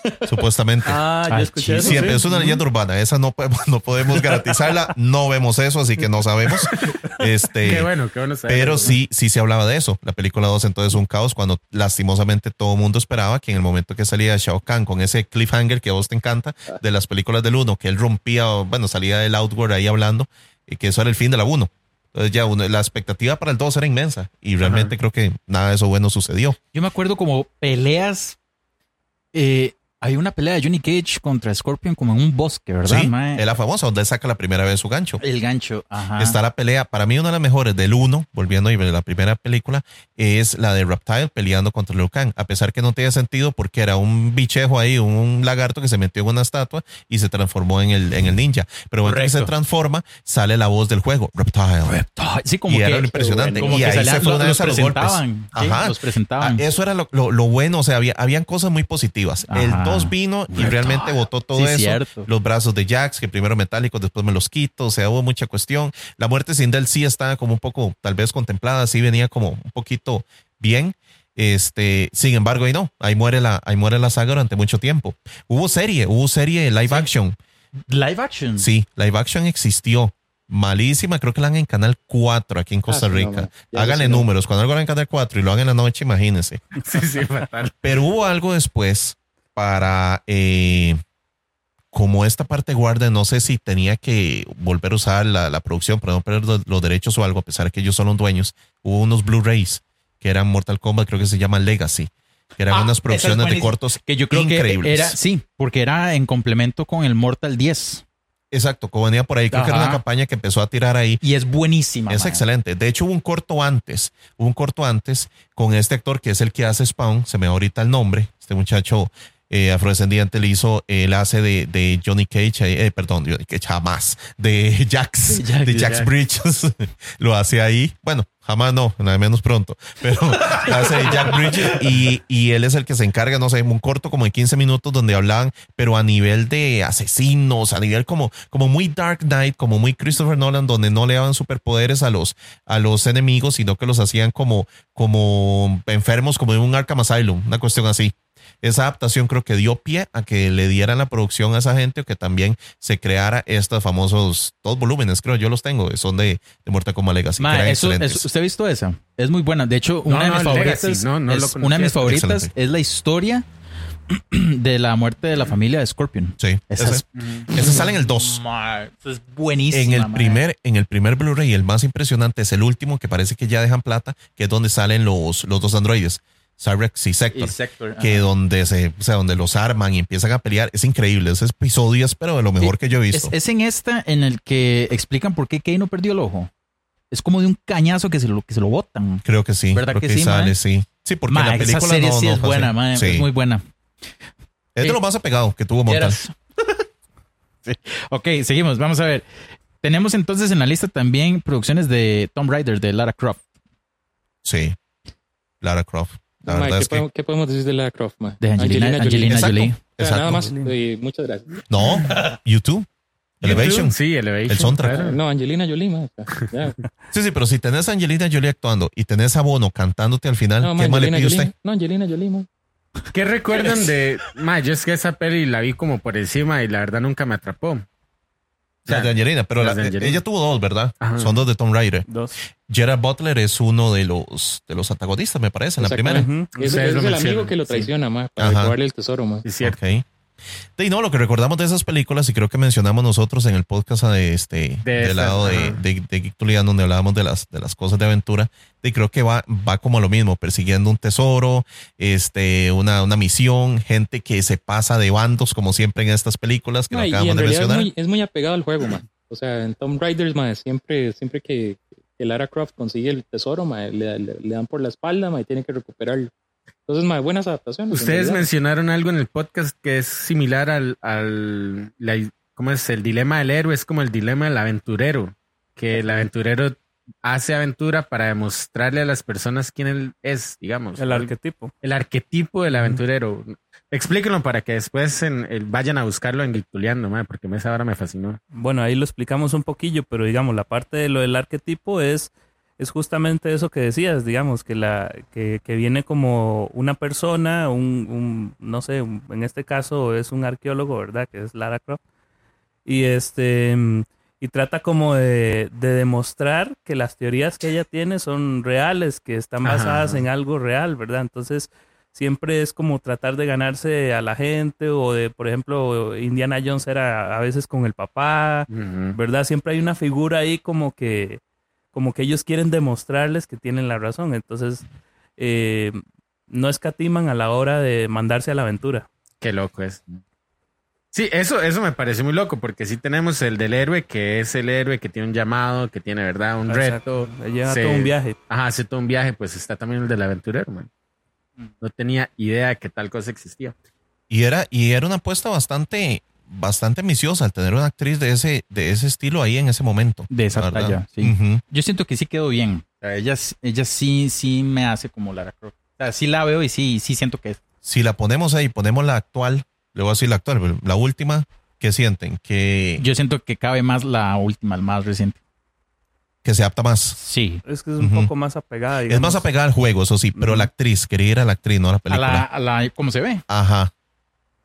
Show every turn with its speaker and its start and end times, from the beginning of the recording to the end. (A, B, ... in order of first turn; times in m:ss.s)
0:00.2-0:01.0 A
0:00.8-0:02.3 B
0:01.3-0:02.2 C
0:01.8-0:07.9 A
0:06.8-0:07.1 B
0:07.6-0:09.0 D
0:08.5-0:26.6 A
0:24.6-0:24.9 D
0:26.7-0:28.4 C
0:29.3-0:33.4 C
0:32.8-0:35.2 A
0:35.2-0:36.4 C
0:36.2-0:52.0 A
0:49.0-0:49.5 C
0:51.8-0:56.6 C
0:52.7-1:17.4 A
0:53.1-0:54.1 E
0:59.5-1:02.3 C
1:17.9-1:18.7 C
1:18.6-1:26.6 A
1:22.9-1:24.3 E
1:26.8-1:27.8 D
1:27.8-1:31.0 A
1:31.9-1:45.2 A
1:42.7-1:48.0 C
1:48.5-1:51.2 A
1:49.5-1:50.0 C
1:51.2-1:52.4 C
1:52.1-2:38.3 A
2:05.3-2:06.1 C
2:10.6-2:11.2 C
2:37.4-2:43.4 C
2:40.0-2:42.1 D
2:42.0-2:42.5 A
2:44.1-2:50.4 C
2:46.4-2:48.4 A
2:47.1-2:47.9 D
2:49.7-3:03.3 A
2:57.3-2:58.3 C
3:02.6-3:06.5 C
3:07.1-3:10.6 C
3:09.2-3:13.2 A
3:11.3-3:13.6 C
3:14.8-3:16.2 A
3:15.8-3:16.8 C
3:17.6-3:19.2 C
3:19.8-3:23.4 C
3:24.4-3:24.8 A
3:25.6-3:27.0 A
3:26.4-3:31.6 E
3:28.4-3:29.8 C
3:29.3-3:30.5 A
3:30.3-3:30.7 B
3:31.7-3:32.9 A
3:33.4-3:35.0 A
3:33.4-3:35.2 D
3:34.9-3:36.8 E
3:37.1-3:41.5 A
3:40.6-3:42.4 E
3:43.1-3:47.8 D
3:48.9-3:50.2 D
3:48.9-3:52.0 A
3:51.0-3:51.3 D
3:52.1-3:52.3 B
3:52.6-3:56.3 A
3:55.8-3:59.4 E
3:56.1-3:56.8 B
3:56.6-3:57.9 D
3:58.4-3:58.8 A
3:59.4-3:59.8 D
3:59.6-4:00.0 A
4:00.8-4:17.9 A
4:04.8-4:05.8 D
4:16.9-4:26.3 E
4:26.8-4:28.5 E
4:27.9-4:41.3 D
4:35.9-4:36.2 B
4:41.0-4:41.7 B
4:41.8-4:48.4 D
4:42.7-4:43.0 B
4:48.5-5:02.0 B
5:02.8-5:21.4 B
5:09.6-5:10.2 D
5:18.7-5:19.2 D
5:21.9-5:24.8 B
5:25.4-5:26.0 B
5:26.5-5:29.1 B
5:29.4-5:30.2 D
5:31.1-5:40.9 D
5:36.7-5:38.4 B
5:41.8-5:43.7 D
5:44.3-5:51.6 A
5:50.3-5:57.6 C
5:57.8-6:03.0 A
6:03.0-6:05.4 C
6:06.4-6:07.2 A
6:07.2-6:07.6 C
6:07.6-6:09.4 B
6:08.0-6:08.3 A
6:09.1-6:12.5 A
6:10.4-6:10.7 B
6:12.1-6:13.4 C
6:13.5-6:13.9 A